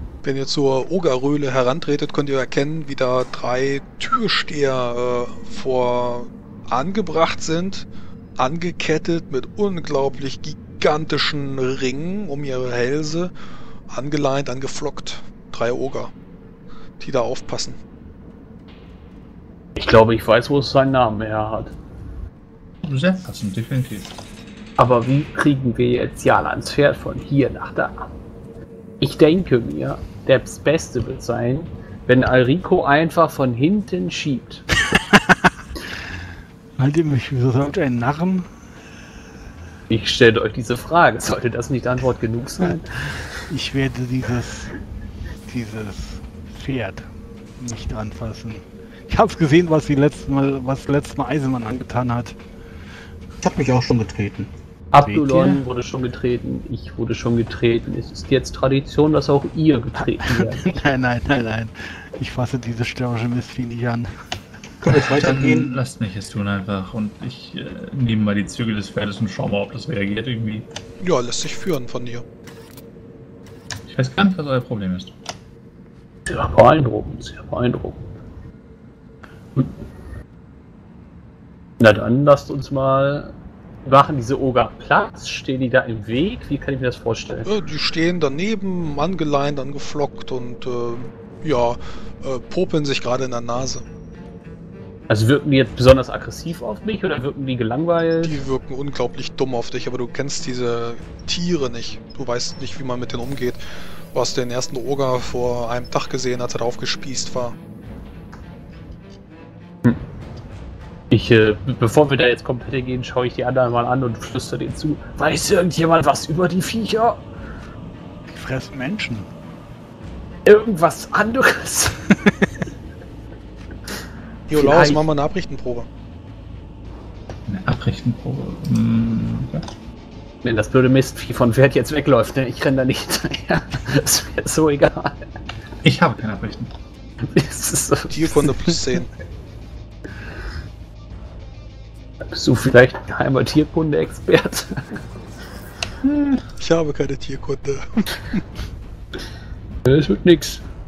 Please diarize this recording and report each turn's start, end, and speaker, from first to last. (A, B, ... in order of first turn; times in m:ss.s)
0:00.2-0:07.8 A
0:08.4-0:13.3 A
0:13.9-0:16.1 A
0:17.0-0:17.8 A
0:19.8-0:21.8 B
0:22.8-0:24.1 C
0:24.8-0:28.1 B
0:29.0-0:34.6 B
0:34.9-0:35.5 D
0:36.8-0:38.5 D
0:39.9-0:43.3 B
0:43.5-0:44.7 D
0:45.4-0:52.4 D
0:53.4-0:54.5 E
0:54.9-1:00.6 B
0:55.0-0:55.6 D
1:00.1-1:04.1 D
1:04.8-1:05.7 E
1:04.9-1:10.6 C
1:11.0-1:12.2 A
1:13.9-1:15.1 C
1:16.2-1:18.1 B
1:21.8-1:27.5 B
1:27.4-1:33.8 A
1:35.1-1:38.4 B
1:38.2-1:43.6 A
1:44.1-1:47.6 A
1:51.1-1:57.2 B
1:58.3-1:59.3 D
2:00.4-2:02.2 B
2:04.5-2:05.9 A
2:04.5-2:05.0 B
2:07.5-2:09.6 C
2:10.4-2:15.3 B
2:15.8-2:16.7 C
2:17.2-2:18.7 B
2:18.1-2:19.1 A
2:22.2-2:25.0 B
2:26.0-2:26.4 C
2:26.6-2:28.4 A
2:29.8-2:30.6 B